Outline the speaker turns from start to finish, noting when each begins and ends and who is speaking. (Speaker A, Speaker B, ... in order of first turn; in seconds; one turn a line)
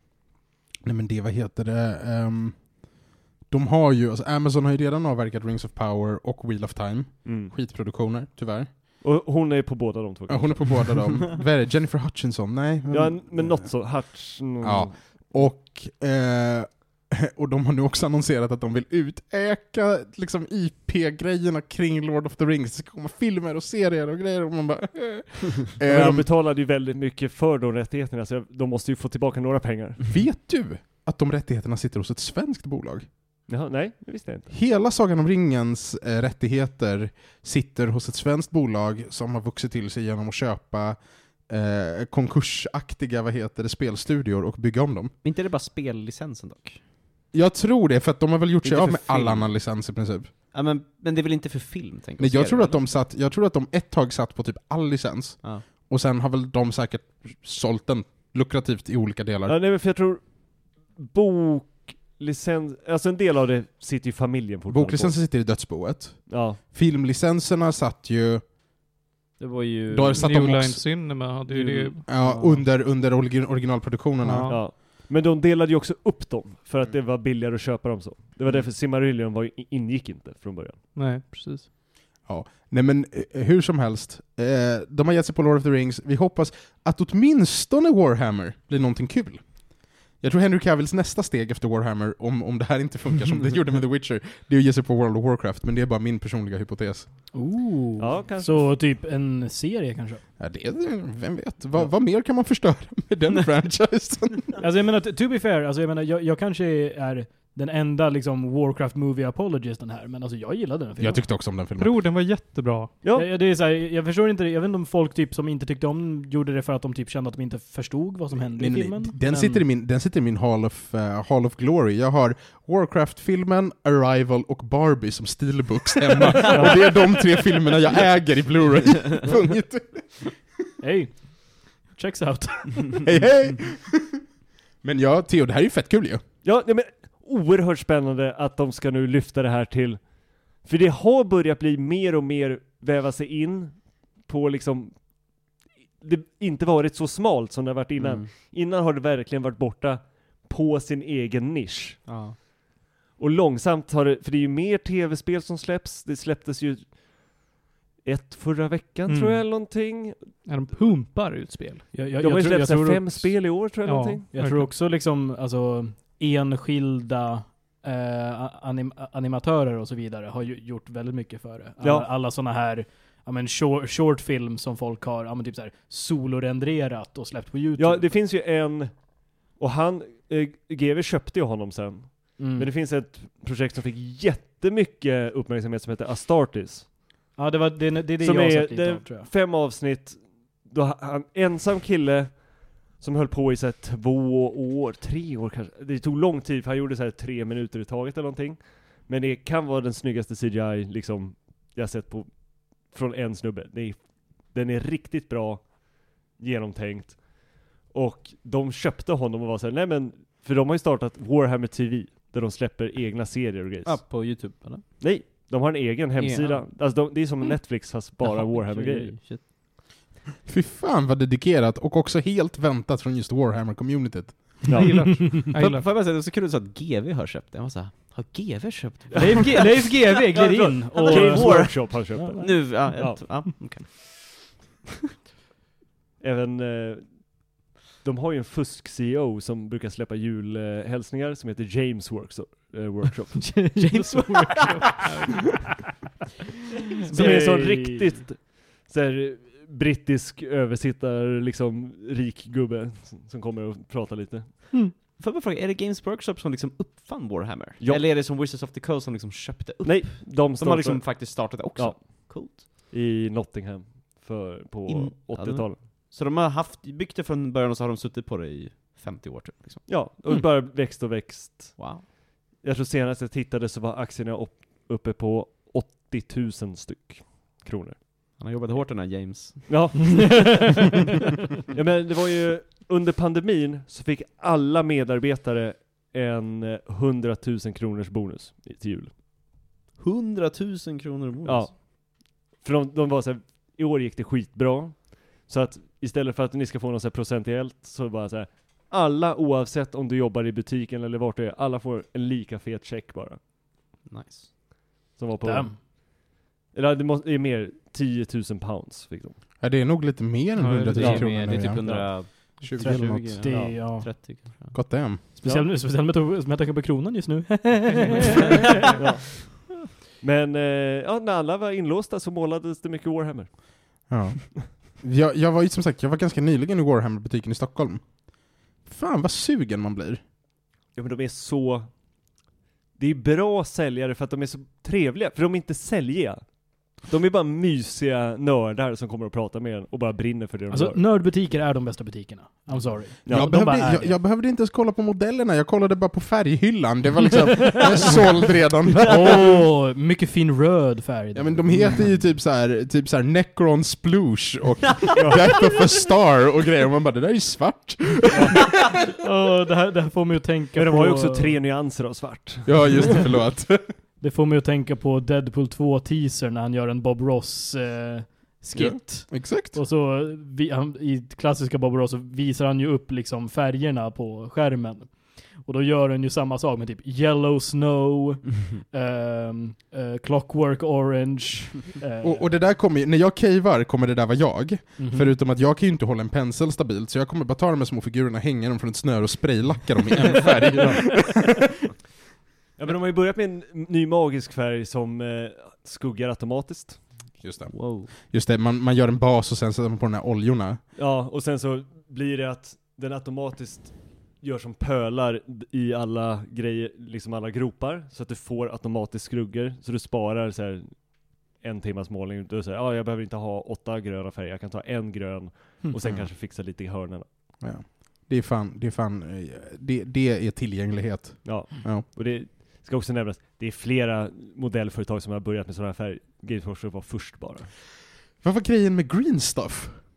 Speaker A: 0.8-8.7
Speaker B: 7.2-7.5
Speaker B: 9.0-11.0
Speaker A: 10.3-14.0
Speaker B: 12.9-15.3
Speaker A: 14.6-26.2
Speaker B: 25.8-30.0
Speaker A: 30.1-33.1
Speaker B: 33.5-34.5
Speaker A: 34.5-45.1
Speaker C: 45.2-46.8
Speaker A: 47.3-50.3
Speaker B: 48.6-48.9
Speaker C: 48.9-49.5
Speaker C: 50.5-52.8
Speaker A: 52.2-59.6
Speaker B: 59.5-65.3
Speaker A: 64.7-68.5
Speaker B: 66.3-66.6
Speaker C: 69.4-70.3
Speaker A: 69.9-71.3
Speaker D: 70.1-72.0
Speaker C: 71.4-72.7
Speaker A: 72.0-74.6
Speaker D: 74.2-74.7
Speaker B: 74.5-80.8
Speaker D: 80.9-81.7
Speaker A: 82.2-97.1
Speaker E: 97.3-100.2
Speaker B: 98.0-98.8
Speaker A: 100.4-104.6
Speaker E: 104.6-111.2
Speaker A: 111.0-112.0
Speaker D: 111.8-112.9
Speaker B: 113.0-113.3
Speaker E: 113.1-119.6
Speaker A: 118.5-130.3
Speaker E: 130.8-133.2
Speaker A: 133.0-134.2
Speaker A: 134.8-136.2
Speaker B: 136.4-145.2
Speaker B: 146.0-152.0
Speaker C: 148.0-148.3
Speaker C: 152.1-152.4
Speaker B: 153.2-157.4
Speaker B: 158.0-160.3
Speaker D: 159.1-159.7
Speaker D: 160.4-161.8
Speaker E: 161.9-163.5
Speaker B: 162.2-164.2
Speaker D: 163.8-164.7
Speaker E: 164.3-178.1
Speaker B: 171.8-172.1
Speaker B: 177.8-186.9
Speaker E: 182.4-182.7
Speaker E: 187.4-189.3
Speaker B: 188.2-214.2
Speaker C: 213.8-215.0
Speaker B: 215.0-219.2
Speaker C: 216.2-216.7
Speaker C: 218.2-219.5
Speaker A: 220.4-224.8
Speaker B: 224.7-225.3
Speaker D: 224.8-225.9
Speaker C: 225.5-234.5
Speaker B: 229.1-233.8
Speaker E: 229.2-233.1
Speaker B: 236.2-243.7
Speaker D: 243.5-245.7
Speaker C: 243.8-244.8
Speaker E: 247.1-248.0
Speaker B: 247.1-254.6
Speaker C: 255.0-262.7
Speaker B: 257.8-258.1
Speaker B: 259.8-265.8
Speaker C: 264.9-269.9
Speaker B: 269.9-278.0
Speaker C: 271.8-272.1
Speaker C: 278.4-279.9
Speaker B: 279.7-280.8
Speaker E: 280.2-280.5
Speaker B: 281.7-289.1
Speaker C: 290.0-291.8
Speaker B: 291.4-303.4
Speaker C: 304.0-304.5
Speaker B: 305.1-309.4
Speaker E: 305.4-305.8
Speaker A: 309.6-313.5
Speaker D: 310.6-311.0
Speaker C: 310.9-314.9
Speaker B: 310.9-312.1
Speaker E: 312.8-314.1
Speaker B: 313.4-313.7
Speaker A: 314.7-315.2
Speaker E: 315.4-318.9
Speaker B: 315.4-315.7
Speaker D: 317.9-318.4
Speaker B: 318.9-319.5
Speaker B: 320.2-324.1
Speaker A: 324.1-330.2
Speaker B: 330.9-331.9
Speaker B: 332.9-341.0
Speaker E: 340.7-344.1
Speaker A: 343.3-349.6
Speaker E: 349.0-352.0
Speaker A: 351.3-358.8
Speaker B: 355.1-355.5
Speaker E: 359.1-361.5
Speaker B: 360.7-363.2
Speaker A: 362.6-363.9
Speaker E: 364.2-382.5
Speaker A: 368.7-369.8
Speaker A: 382.2-391.5
Speaker E: 385.0-385.3
Speaker B: 392.8-397.0
Speaker A: 397.4-400.8
Speaker C: 397.7-398.1
Speaker B: 400.9-417.3
Speaker A: 416.0-416.3
Speaker A: 417.6-422.1
Speaker B: 421.4-427.7
Speaker A: 428.4-430.0